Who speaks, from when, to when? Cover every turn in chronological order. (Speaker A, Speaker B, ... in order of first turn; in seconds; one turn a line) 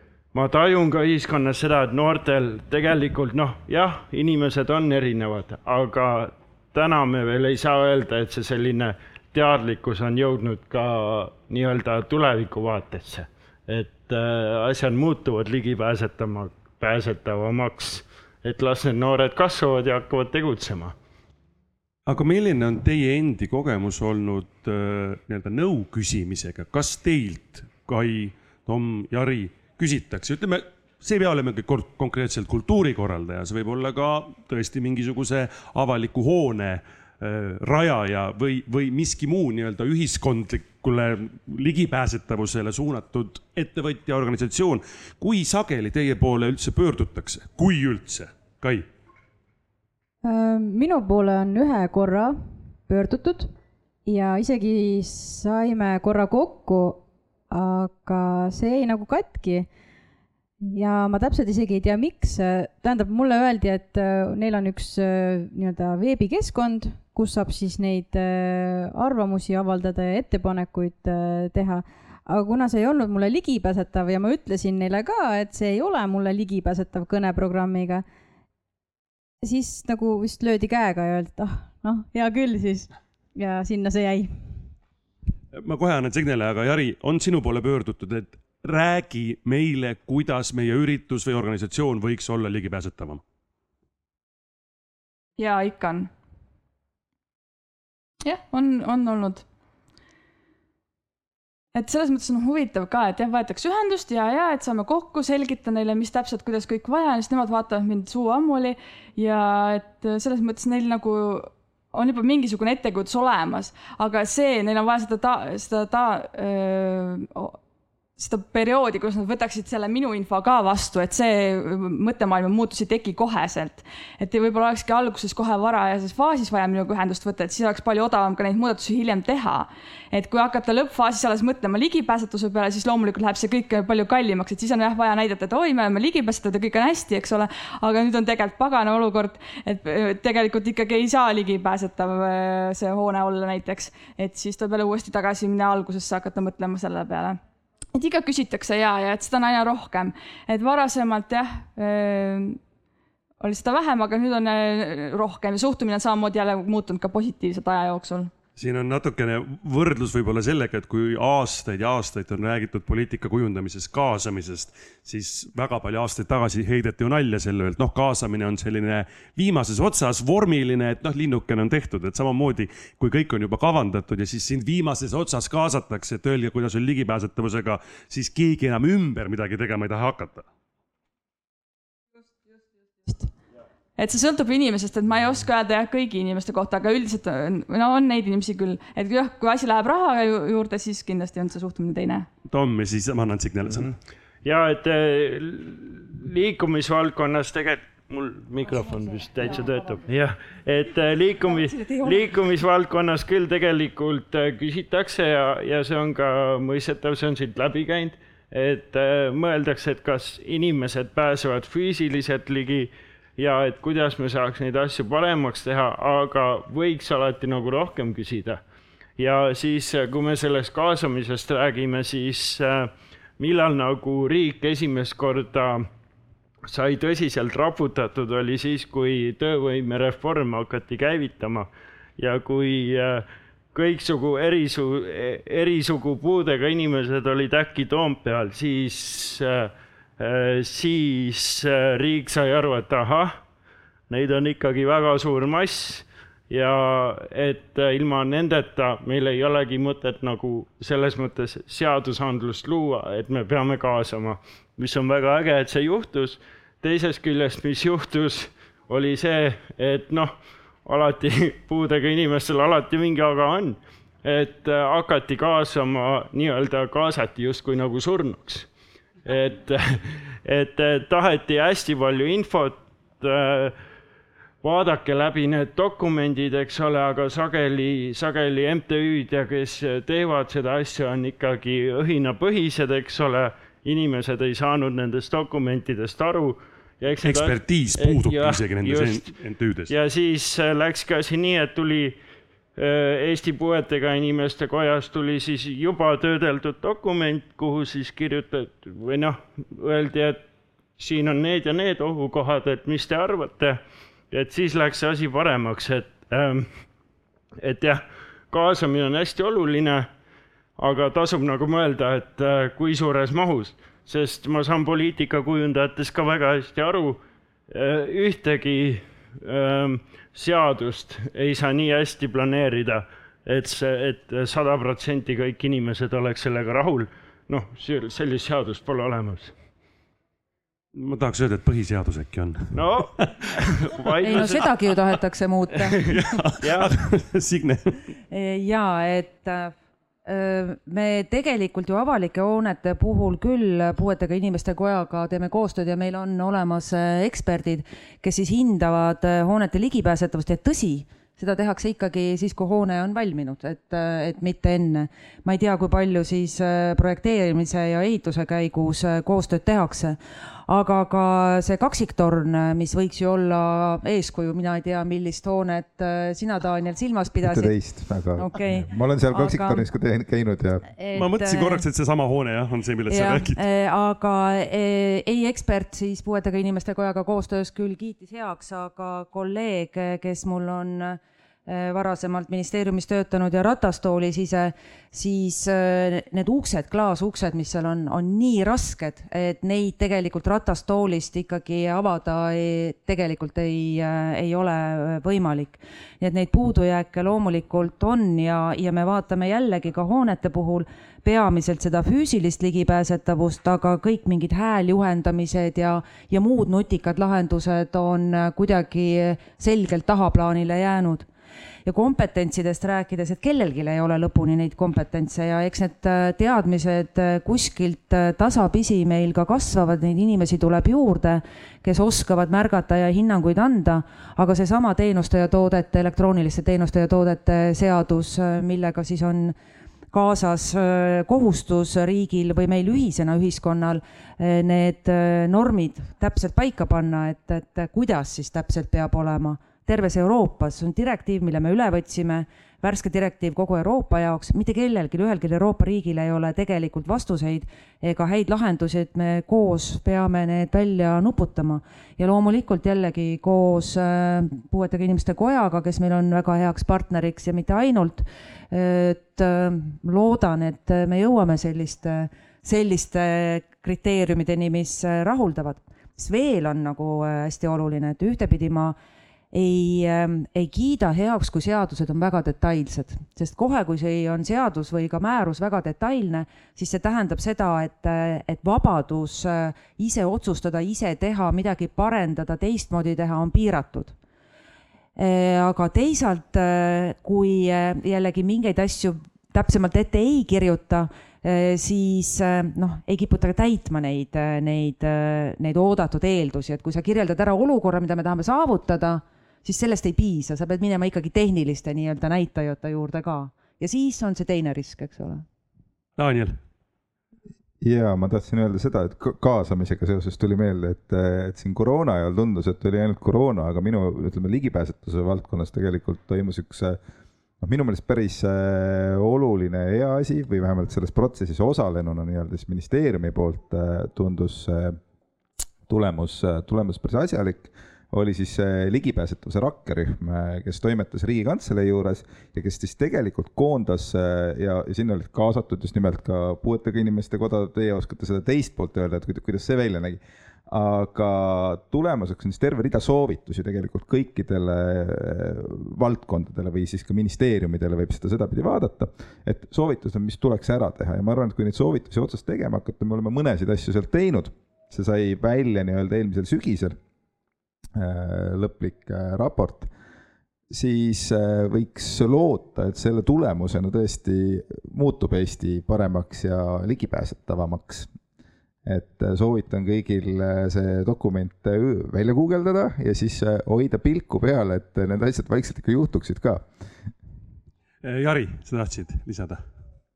Speaker A: 0.3-20.9
Speaker B: 22.1-48.9
Speaker C: 50.2-53.5
Speaker C: 54.0-59.7
Speaker C: 60.7-78.0
Speaker C: 79.4-84.3
Speaker B: 85.5-93.2
Speaker D: 95.4-96.1
Speaker D: 98.2-99.4
Speaker D: 101.7-117.6
Speaker D: 118.2-147.4
Speaker D: 147.9-152.6
Speaker D: 153.4-158.3
Speaker B: 158.6-180.5
Speaker D: 184.0-192.3
Speaker B: 192.5-193.9
Speaker A: 194.4-218.6
Speaker A: 219.2-225.9
Speaker A: 226.7-243.4
Speaker A: 244.1-268.7
Speaker A: 269.2-273.8
Speaker A: 274.6-289.3
Speaker B: 287.2-289.9
Speaker A: 289.9-292.2
Speaker A: 292.8-300.4
Speaker A: 301.0-303.8
Speaker A: 304.3-306.7
Speaker A: 307.6-310.1
Speaker A: 310.8-329.5
Speaker B: 330.9-333.5
Speaker A: 332.7-334.7
Speaker E: 334.2-336.0
Speaker A: 335.9-337.0
Speaker B: 336.1-338.0
Speaker E: 338.3-360.2
Speaker E: 360.7-367.7
Speaker F: 367.4-370.8
Speaker E: 368.4-369.8
Speaker E: 371.0-371.8
Speaker B: 371.1-373.6
Speaker E: 373.1-411.3
Speaker E: 411.8-429.5
Speaker E: 430.1-468.9
Speaker E: 469.5-484.1
Speaker E: 485.2-505.4
Speaker B: 506.2-506.6
Speaker F: 507.8-517.0
Speaker F: 517.6-525.0
Speaker F: 525.9-557.0
Speaker F: 558.0-559.9
Speaker F: 560.7-568.1
Speaker F: 568.8-576.6
Speaker B: 578.0-579.6